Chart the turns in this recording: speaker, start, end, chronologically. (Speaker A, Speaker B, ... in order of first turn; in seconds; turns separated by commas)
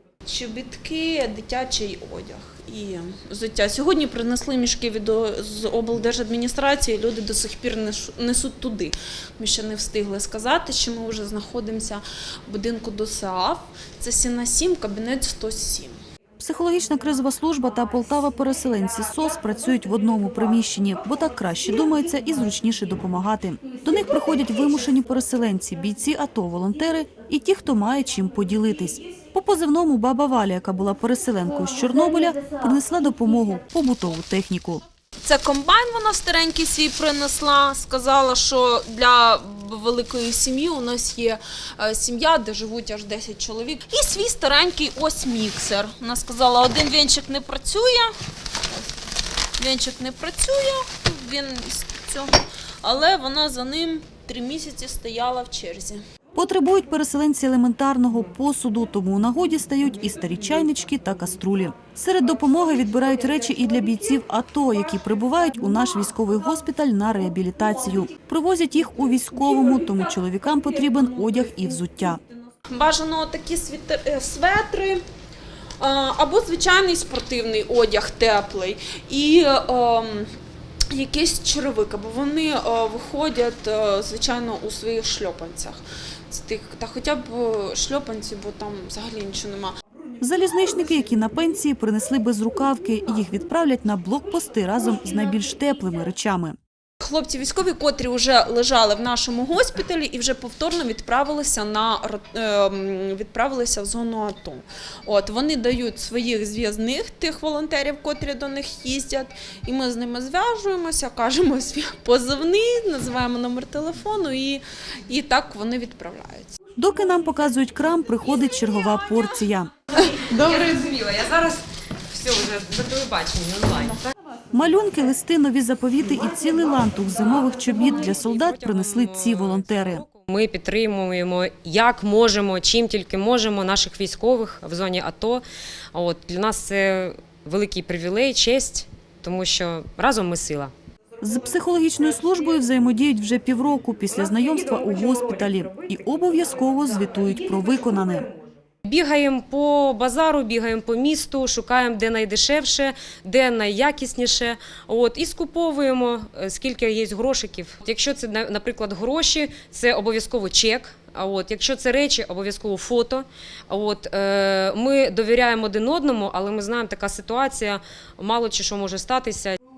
Speaker A: 0.2-16.0, Speaker B: 16.4-34.8, Speaker A: 35.2-48.1, Speaker A: 49.6-56.0, Speaker B: 56.3-72.2, Speaker A: 72.7-75.0, Speaker A: 75.8-80.3, Speaker A: 80.9-89.8, Speaker B: 90.2-96.6, Speaker A: 97.0-116.6, Speaker B: 116.8-119.7, Speaker C: 120.0-124.1, Speaker B: 124.5-130.0, Speaker C: 127.5-140.7, Speaker B: 141.2-148.3, Speaker C: 148.8-169.6